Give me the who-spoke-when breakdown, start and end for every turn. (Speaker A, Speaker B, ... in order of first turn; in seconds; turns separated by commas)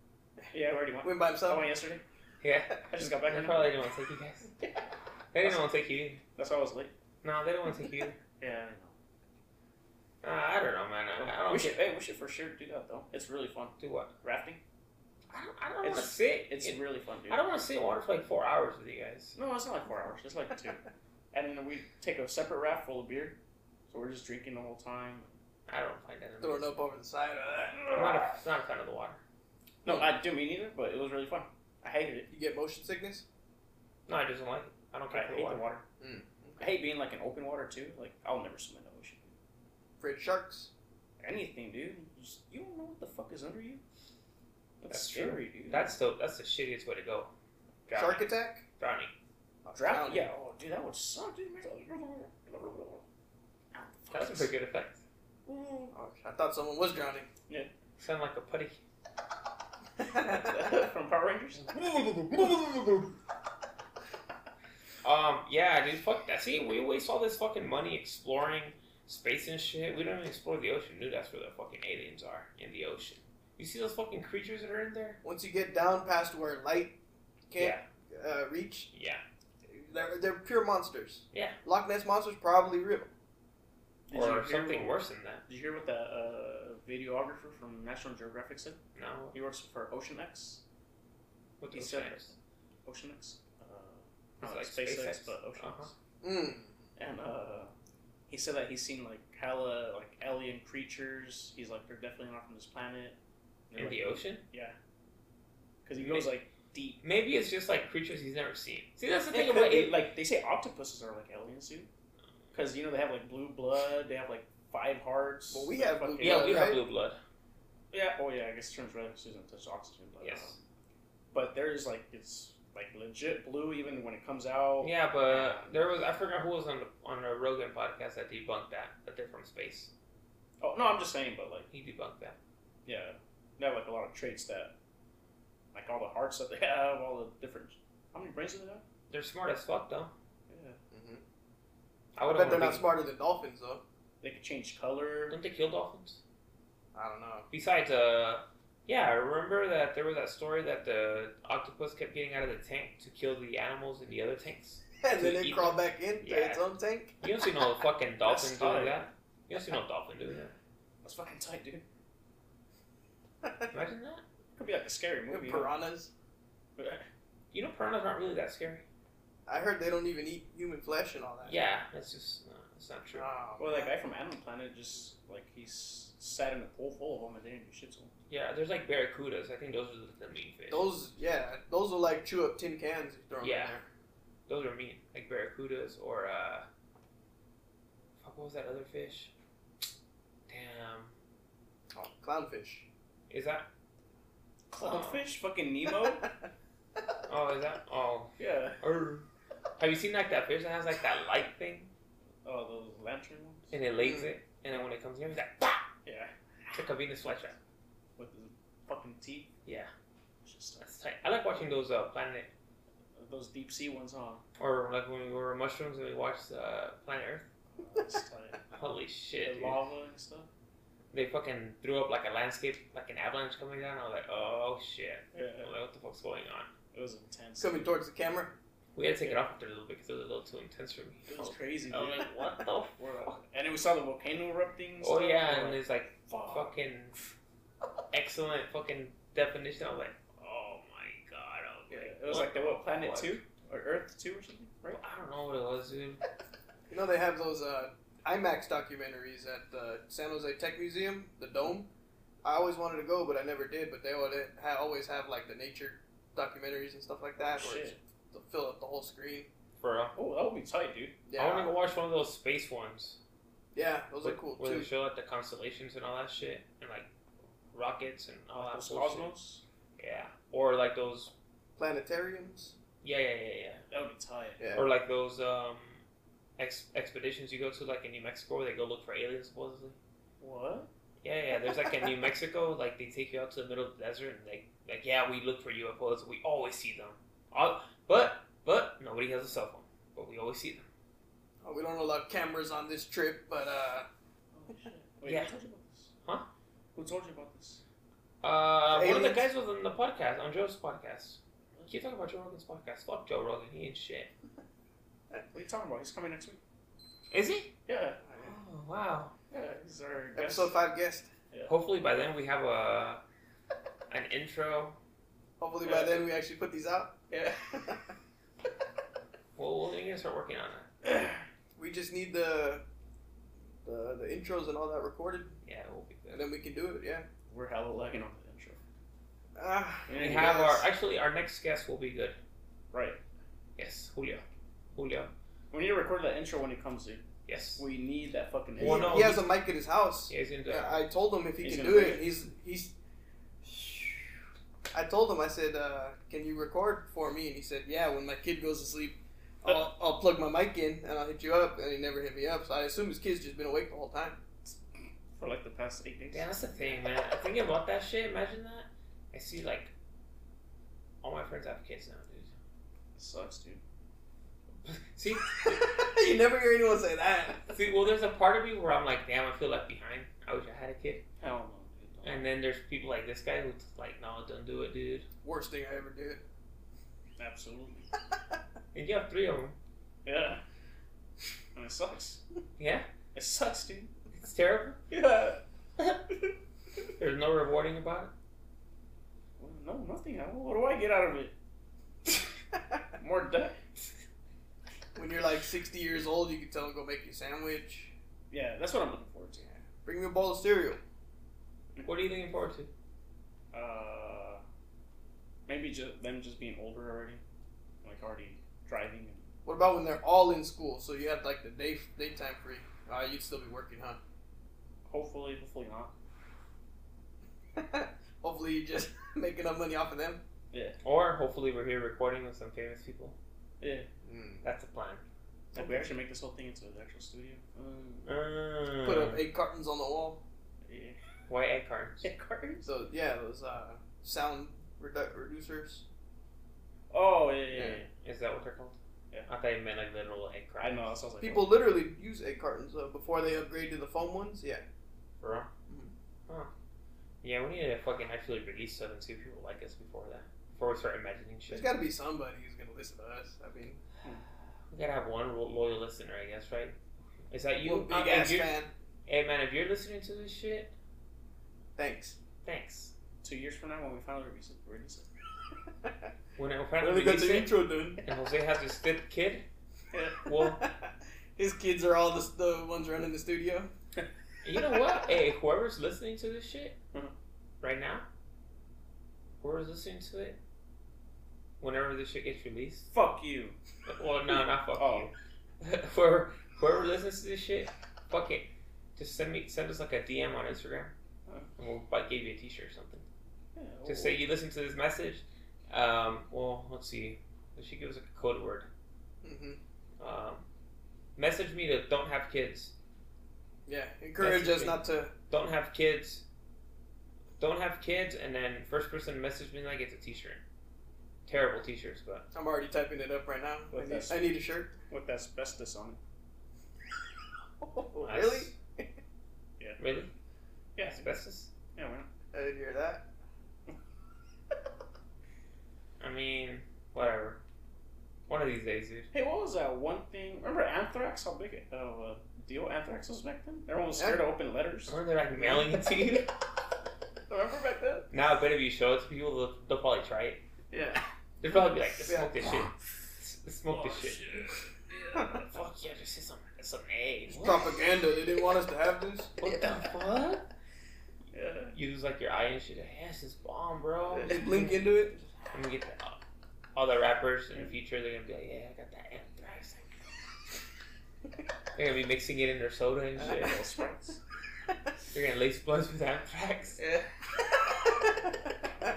Speaker A: 0.5-2.0, Speaker B: 1.0-1.7, Speaker C: 2.4-4.5, Speaker A: 2.9-3.7, Speaker C: 5.3-6.2, Speaker A: 6.4-6.9, Speaker C: 7.2-8.2, Speaker A: 8.4-8.9, Speaker C: 10.2-11.8, Speaker A: 11.2-14.6, Speaker C: 13.8-14.1, Speaker C: 15.3-19.4, Speaker A: 15.8-17.5, Speaker A: 19.4-23.4, Speaker A: 23.9-25.3, Speaker C: 25.7-26.8, Speaker B: 26.4-28.0, Speaker C: 27.9-29.2, Speaker A: 29.8-32.3, Speaker B: 32.3-33.2, Speaker C: 34.1-35.7, Speaker A: 35.1-35.8, Speaker B: 36.0-36.7, Speaker A: 36.6-39.3, Speaker B: 40.0-40.7, Speaker A: 41.2-43.8, Speaker A: 44.8-46.0, Speaker C: 44.9-47.3, Speaker C: 47.9-48.3, Speaker B: 47.9-48.6, Speaker C: 48.8-49.1, Speaker B: 49.6-50.3, Speaker A: 49.8-53.0, Speaker A: 53.7-54.5, Speaker C: 54.1-55.0, Speaker A: 55.5-55.9, Speaker B: 55.9-57.3, Speaker C: 58.0-58.8, Speaker B: 60.0-60.7, Speaker A: 60.2-61.8, Speaker C: 65.0-75.2, Speaker B: 75.2-77.0, Speaker B: 77.5-78.9, Speaker C: 77.6-77.8, Speaker C: 78.9-79.2, Speaker B: 79.7-83.1, Speaker A: 84.1-88.8, Speaker C: 84.1-85.4, Speaker C: 89.0-89.3, Speaker A: 89.3-90.6, Speaker C: 91.6-92.3, Speaker A: 91.7-92.3, Speaker A: 92.8-95.9, Speaker C: 94.4-95.9, Speaker B: 96.2-96.7, Speaker A: 97.0-97.7, Speaker A: 98.3-103.2, Speaker A: 103.7-104.8, Speaker C: 103.8-104.4, Speaker A: 105.8-107.0, Speaker C: 106.0-106.3, Speaker C: 107.0-110.0, Speaker A: 109.3-111.9, Speaker A: 112.5-116.6, Speaker B: 115.5-116.8, Speaker C: 116.2-117.2, Speaker A: 117.9-120.6, Speaker C: 120.2-120.5, Speaker A: 121.3-125.7, Speaker C: 124.8-129.9, Speaker A: 130.6-131.7, Speaker C: 131.7-132.4, Speaker A: 132.9-134.7, Speaker A: 135.7-138.8, Speaker C: 139.1-140.1, Speaker A: 140.5-140.8, Speaker B: 140.9-141.2, Speaker C: 142.2-142.8, Speaker B: 142.2-143.8, Speaker A: 144.2-145.4, Speaker C: 145.3-146.2, Speaker B: 146.9-147.5, Speaker C: 147.5-156.6, Speaker B: 155.0-157.2, Speaker C: 157.2-160.5, Speaker A: 158.2-159.1, Speaker A: 161.0-161.8, Speaker C: 163.7-164.2, Speaker A: 164.6-165.7, Speaker B: 165.3-166.1, Speaker A: 166.8-167.1, Speaker C: 167.5-168.8, Speaker B: 169.5-171.6, Speaker C: 171.5-173.3, Speaker B: 173.1-173.9, Speaker A: 173.6-178.1, Speaker C: 178.3-180.9, Speaker B: 180.7-183.8, Speaker C: 183.4-183.8, Speaker C: 184.5-186.7, Speaker C: 188.2-189.3, Speaker C: 190.5-191.1, Speaker B: 191.9-192.9, Speaker C: 193.3-193.7, Speaker A: 194.7-196.3, Speaker C: 194.8-195.2, Speaker C: 197.3-199.2, Speaker A: 198.4-198.8, Speaker C: 199.8-201.9, Speaker A: 202.4-203.7, Speaker C: 203.7-205.9, Speaker B: 204.0-204.3, Speaker A: 206.1-206.3, Speaker C: 206.7-207.6, Speaker A: 208.2-209.5, Speaker C: 209.7-209.9, Speaker A: 210.4-210.9, Speaker C: 210.8-212.5, Speaker A: 213.2-214.4, Speaker C: 214.6-217.5, Speaker A: 217.8-218.8, Speaker C: 218.7-219.8, Speaker A: 219.4-220.5, Speaker C: 221.1-226.7, Speaker A: 225.3-225.7, Speaker A: 226.9-227.9, Speaker B: 227.6-228.5, Speaker C: 228.9-233.0, Speaker A: 231.3-232.3, Speaker A: 233.0-236.8, Speaker C: 235.0-237.2, Speaker C: 238.1-243.4, Speaker A: 241.9-245.0, Speaker C: 244.9-246.2, Speaker B: 246.9-251.9, Speaker B: 252.4-259.5, Speaker A: 257.4-258.0, Speaker C: 259.8-260.1, Speaker A: 260.1-261.2, Speaker B: 261.3-261.8, Speaker C: 261.4-263.2, Speaker B: 263.7-264.9, Speaker C: 264.2-267.1, Speaker C: 267.7-269.3, Speaker A: 268.6-269.6, Speaker C: 270.0-271.3, Speaker B: 271.8-272.8, Speaker C: 273.0-273.8, Speaker A: 273.9-274.6, Speaker B: 274.6-274.9, Speaker C: 274.8-276.0, Speaker C: 276.6-280.0, Speaker A: 280.4-280.9, Speaker C: 281.2-290.9, Speaker B: 291.6-294.1, Speaker A: 294.5-296.1, Speaker A: 296.9-297.8, Speaker C: 298.4-304.3, Speaker B: 298.9-299.5, Speaker A: 305.5-306.6, Speaker C: 307.3-307.7, Speaker A: 307.9-308.2, Speaker C: 308.4-309.3, Speaker A: 309.5-310.8, Speaker B: 310.4-311.3, Speaker C: 311.7-313.2, Speaker C: 314.1-315.0, Speaker B: 315.6-317.2, Speaker A: 315.8-316.2, Speaker A: 317.3-318.0, Speaker C: 319.6-320.9, Speaker A: 321.0-321.3, Speaker B: 321.8-322.8, Speaker B: 323.8-325.6, Speaker C: 325.6-326.5, Speaker B: 326.3-327.3, Speaker A: 327.5-328.8, Speaker B: 329.6-330.8, Speaker A: 330.1-330.6, Speaker C: 330.1-332.4, Speaker A: 332.9-333.2, Speaker C: 333.8-334.4, Speaker C: 334.9-335.3, Speaker A: 335.7-337.2, Speaker C: 337.5-337.8, Speaker A: 337.8-339.2, Speaker C: 338.8-339.6, Speaker B: 338.8-342.9, Speaker C: 340.3-341.1, Speaker A: 341.6-342.3, Speaker B: 343.6-344.3, Speaker B: 344.9-354.4, Speaker A: 355.4-356.6, Speaker C: 356.3-359.9, Speaker C: 361.2-362.5, Speaker A: 363.2-363.8, Speaker C: 364.9-366.0, Speaker B: 365.6-367.7, Speaker C: 367.7-371.2, Speaker A: 371.4-372.5, Speaker C: 372.2-375.3, Speaker B: 375.4-376.4, Speaker A: 377.4-378.1, Speaker C: 378.9-379.8, Speaker A: 380.2-380.6, Speaker A: 381.8-382.4, Speaker C: 382.8-383.1, Speaker A: 383.3-384.1, Speaker C: 384.4-385.0, Speaker A: 385.1-386.2, Speaker C: 387.2-388.3, Speaker A: 389.6-391.5, Speaker A: 393.2-393.8, Speaker B: 395.1-398.1, Speaker A: 398.5-399.7, Speaker B: 399.7-401.0, Speaker C: 402.0-402.9, Speaker A: 403.7-404.6, Speaker A: 405.7-407.4, Speaker A: 408.0-409.5, Speaker B: 409.6-414.2, Speaker A: 415.1-416.1, Speaker B: 417.8-420.4, Speaker A: 420.7-421.0, Speaker C: 421.0-423.4, Speaker A: 423.8-424.1, Speaker B: 424.2-424.6, Speaker C: 424.6-425.2, Speaker A: 425.7-428.3, Speaker B: 425.8-426.1, Speaker C: 428.3-429.4, Speaker B: 429.0-430.4, Speaker A: 430.9-431.2, Speaker C: 431.5-432.3, Speaker A: 432.2-432.9, Speaker B: 432.8-436.1, Speaker A: 437.1-438.1, Speaker B: 437.7-438.0, Speaker C: 438.2-439.0, Speaker C: 439.5-441.1, Speaker A: 440.8-441.8, Speaker B: 441.4-444.8, Speaker C: 445.4-445.7, Speaker C: 447.4-451.9, Speaker B: 451.7-454.0, Speaker C: 454.9-456.9, Speaker C: 457.5-458.7, Speaker B: 457.8-458.9, Speaker C: 459.3-460.9, Speaker B: 462.0-462.4, Speaker C: 462.6-463.1, Speaker A: 463.4-465.3, Speaker C: 466.6-469.6, Speaker B: 467.0-468.2, Speaker A: 470.1-470.4, Speaker C: 470.4-470.9, Speaker B: 470.5-473.9, Speaker C: 474.6-477.0, Speaker C: 477.8-478.2, Speaker C: 479.6-480.6, Speaker C: 481.8-483.1, Speaker A: 483.1-483.8, Speaker C: 484.1-491.1, Speaker A: 485.0-485.3, Speaker C: 491.8-493.2, Speaker A: 493.8-494.4, Speaker C: 494.1-498.9, Speaker B: 499.4-499.8, Speaker C: 500.2-500.6, Speaker C: 501.4-502.9, Speaker B: 503.9-505.3, Speaker C: 504.4-506.4, Speaker C: 507.6-510.6, Speaker C: 511.5-512.5, Speaker B: 512.5-514.9, Speaker A: 513.9-514.5, Speaker A: 515.1-516.2, Speaker B: 517.8-519.1, Speaker C: 518.2-518.8, Speaker C: 520.0-520.3, Speaker A: 521.0-521.3, Speaker C: 521.0-521.7, Speaker A: 522.0-522.3, Speaker B: 522.5-523.3, Speaker C: 526.2-527.6, Speaker C: 528.5-529.3, Speaker A: 529.3-535.2, Speaker B: 534.1-534.4, Speaker C: 535.1-536.5, Speaker A: 537.5-538.3, Speaker C: 538.3-540.6, Speaker A: 540.9-541.2, Speaker C: 541.6-544.7, Speaker B: 542.3-542.5, Speaker A: 543.9-545.6, Speaker C: 545.5-547.9, Speaker B: 547.5-549.6, Speaker C: 549.6-550.7, Speaker A: 551.5-552.0, Speaker C: 551.9-555.1, Speaker B: 554.3-555.5, Speaker C: 555.7-556.4, Speaker C: 557.0-560.2, Speaker C: 562.0-563.8, Speaker A: 563.4-564.4, Speaker C: 565.3-567.0, Speaker B: 567.7-568.5